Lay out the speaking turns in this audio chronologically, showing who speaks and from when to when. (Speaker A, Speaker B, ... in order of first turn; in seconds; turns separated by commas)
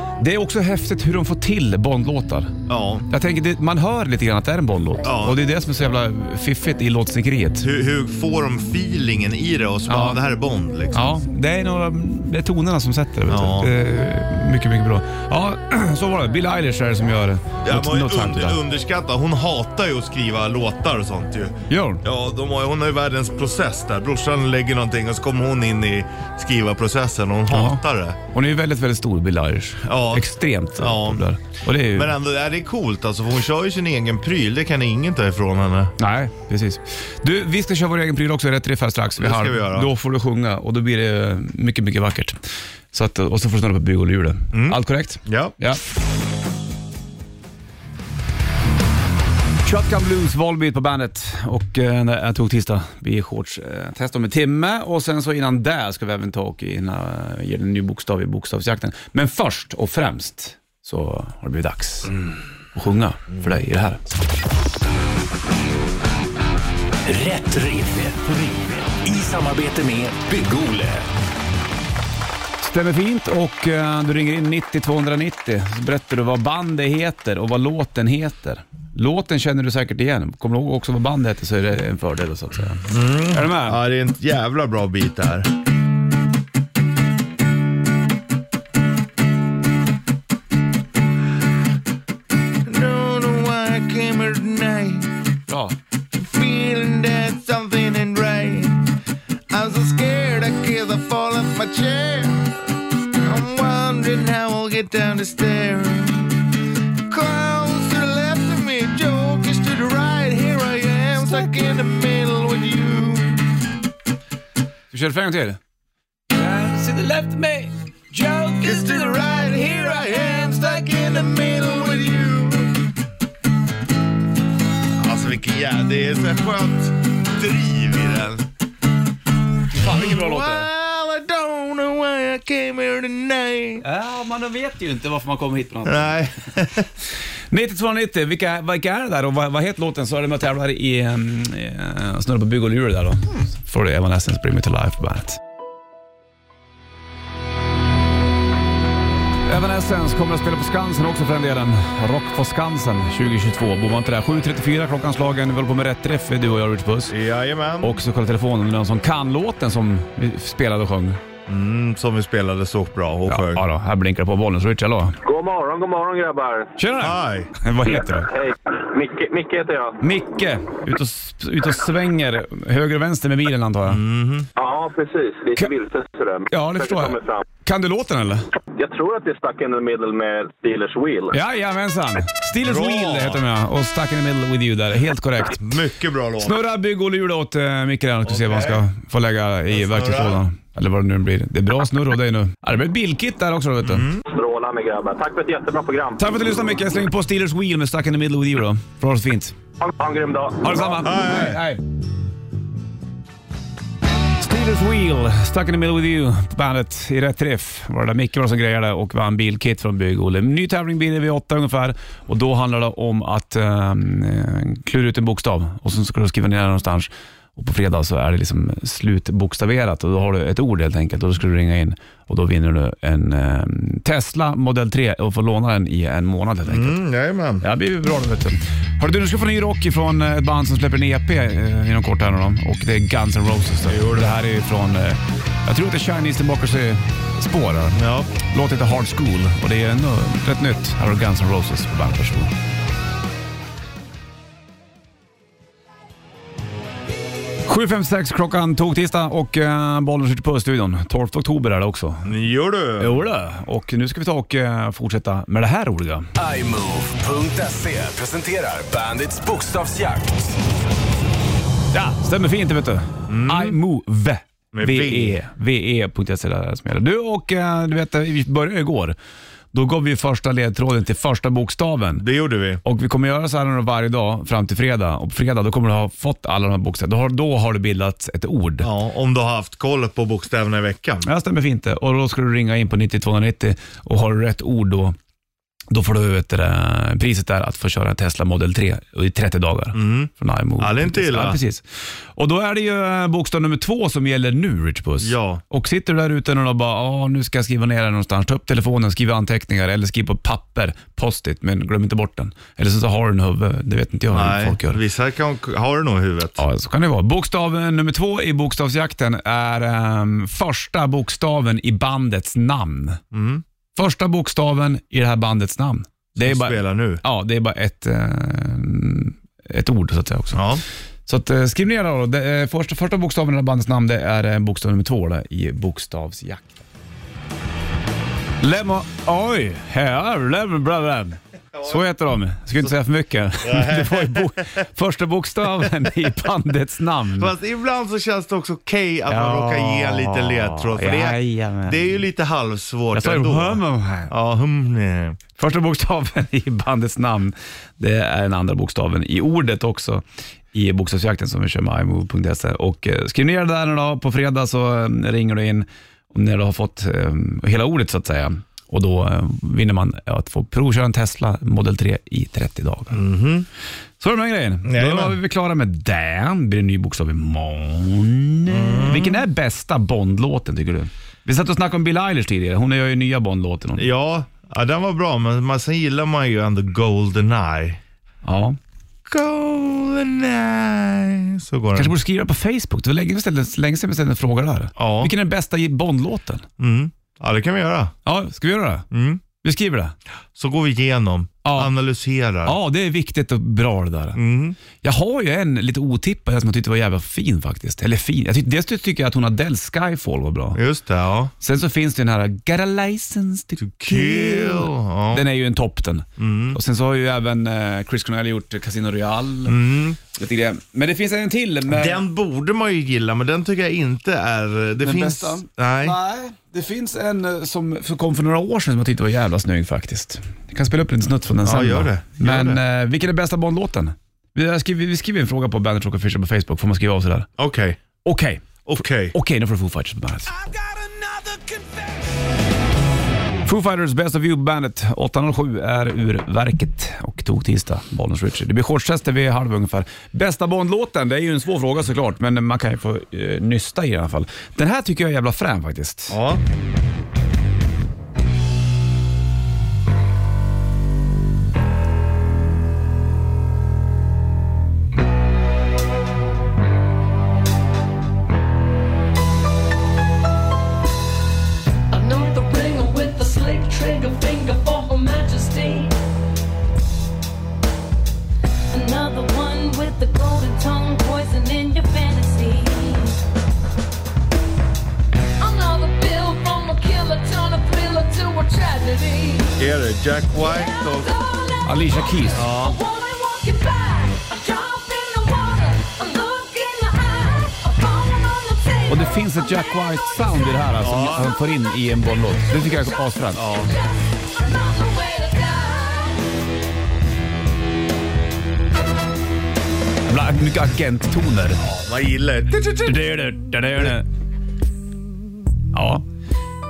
Speaker A: 0.2-2.5, Speaker B: 2.7-3.1, Speaker A: 3.1-7.7, Speaker B: 5.0-5.4, Speaker B: 7.6-11.1, Speaker A: 9.9-10.2, Speaker A: 10.9-18.6, Speaker B: 13.3-13.7, Speaker B: 17.6-28.2, Speaker A: 21.7-22.0, Speaker A: 27.5-27.8, Speaker A: 28.3-32.1, Speaker B: 29.8-31.2, Speaker B: 31.9-36.0, Speaker A: 36.0-42.4, Speaker B: 39.2-39.9, Speaker A: 42.9-45.8, Speaker B: 44.5-45.5, Speaker A: 49.6-62.1, Speaker A: 62.8-64.0, Speaker C: 67.1-71.1, Speaker A: 72.6-83.8, Speaker B: 82.9-85.5, Speaker B: 92.7-95.1, Speaker A: 95.5-95.8, Speaker B: 96.1-98.8, Speaker B: 99.5-106.5, Speaker B: 107.1-113.5, Speaker A: 114.9-115.6, Speaker A: 116.3-120.9, Speaker B: 118.6-122.9, Speaker B: 125.0-128.5, Speaker A: 129.7-130.7, Speaker B: 129.8-133.8, Speaker A: 133.8-136.2, Speaker B: 135.8-136.9, Speaker A: 137.5-145.4, Speaker A: 149.5-157.2, Speaker B: 157.1-158.0, Speaker A: 157.8-161.2, Speaker B: 161.5-163.7, Speaker A: 163.3-165.2, Speaker D: 165.2-166.7, Speaker A: 166.8-168.3, Speaker B: 167.0-167.5, Speaker D: 168.1-170.0, Speaker A: 170.0-174.0, Speaker B: 173.9-174.5, Speaker D: 174.6-177.4, Speaker A: 176.5-178.5, Speaker D: 178.8-181.4, Speaker A: 181.3-185.7, Speaker B: 182.6-183.4, Speaker B: 185.5-186.6, Speaker A: 186.4-194.1, Speaker B: 188.2-188.8, Speaker B: 189.7-190.4, Speaker B: 193.8-194.2, Speaker D: 194.3-196.2, Speaker A: 196.2-199.6, Speaker D: 199.8-200.7, Speaker A: 200.6-201.8, Speaker B: 200.8-201.6, Speaker A: 204.4-227.0, Speaker B: 226.7-227.7, Speaker A: 227.6-242.5, Speaker B: 233.9-234.4, Speaker B: 237.9-238.3, Speaker A: 247.7-252.3, Speaker B: 252.2-253.2, Speaker A: 253.0-256.3, Speaker C: 256.4-260.6, Speaker A: 261.9-269.2, Speaker B: 263.3-263.8, Speaker B: 264.7-265.4, Speaker A: 269.7-272.2, Speaker B: 272.2-272.8, Speaker A: 272.8-278.9, Speaker B: 278.8-281.3, Speaker A: 281.2-285.2, Speaker A: 285.9-291.8, Speaker B: 289.9-291.6, Speaker A: 292.4-305.0, Speaker B: 295.2-295.6, Speaker B: 304.3-306.6, Speaker A: 306.6-313.2, Speaker B: 313.3-313.6, Speaker A: 314.0-320.7, Speaker B: 316.4-317.2, Speaker B: 320.5-320.8, Speaker A: 321.3-326.8, Speaker A: 328.6-337.5, Speaker B: 331.7-332.0, Speaker B: 333.6-334.7, Speaker B: 335.8-336.3, Speaker B: 337.4-345.4, Speaker A: 339.3-342.2, Speaker A: 343.1-344.3, Speaker A: 345.6-363.2, Speaker B: 363.1-363.7, Speaker A: 364.2-374.1, Speaker B: 364.9-365.4, Speaker B: 368.7-369.4, Speaker B: 374.0-378.0, Speaker A: 378.4-378.8, Speaker B: 379.3-382.1, Speaker A: 381.9-386.7, Speaker B: 385.0-385.3, Speaker B: 386.8-388.1, Speaker A: 388.2-389.1, Speaker B: 389.1-389.4, Speaker A: 389.6-390.2, Speaker B: 390.6-392.8, Speaker A: 391.6-391.9, Speaker A: 392.6-394.4, Speaker B: 394.4-394.8, Speaker A: 395.0-400.8, Speaker B: 400.8-401.5, Speaker A: 401.6-409.8, Speaker B: 403.8-405.4, Speaker B: 406.4-406.8, Speaker B: 409.7-410.2, Speaker A: 410.3-412.2, Speaker B: 411.9-416.2, Speaker A: 415.0-427.5, Speaker B: 421.6-422.8, Speaker B: 427.6-428.0, Speaker A: 428.2-430.5, Speaker B: 428.9-429.3, Speaker C: 430.7-432.0, Speaker A: 433.6-446.4, Speaker B: 446.3-446.6, Speaker E: 462.1-466.1, Speaker E: 468.9-473.4, Speaker E: 475.6-479.8, Speaker B: 479.8-481.3, Speaker E: 480.5-489.8, Speaker A: 481.9-482.7, Speaker B: 482.6-483.0, Speaker A: 489.1-493.6, Speaker B: 491.0-491.5, Speaker B: 493.6-494.0, Speaker E: 493.7-496.4, Speaker A: 500.3-501.8, Speaker B: 501.8-504.2, Speaker A: 503.1-504.3, Speaker A: 505.9-506.2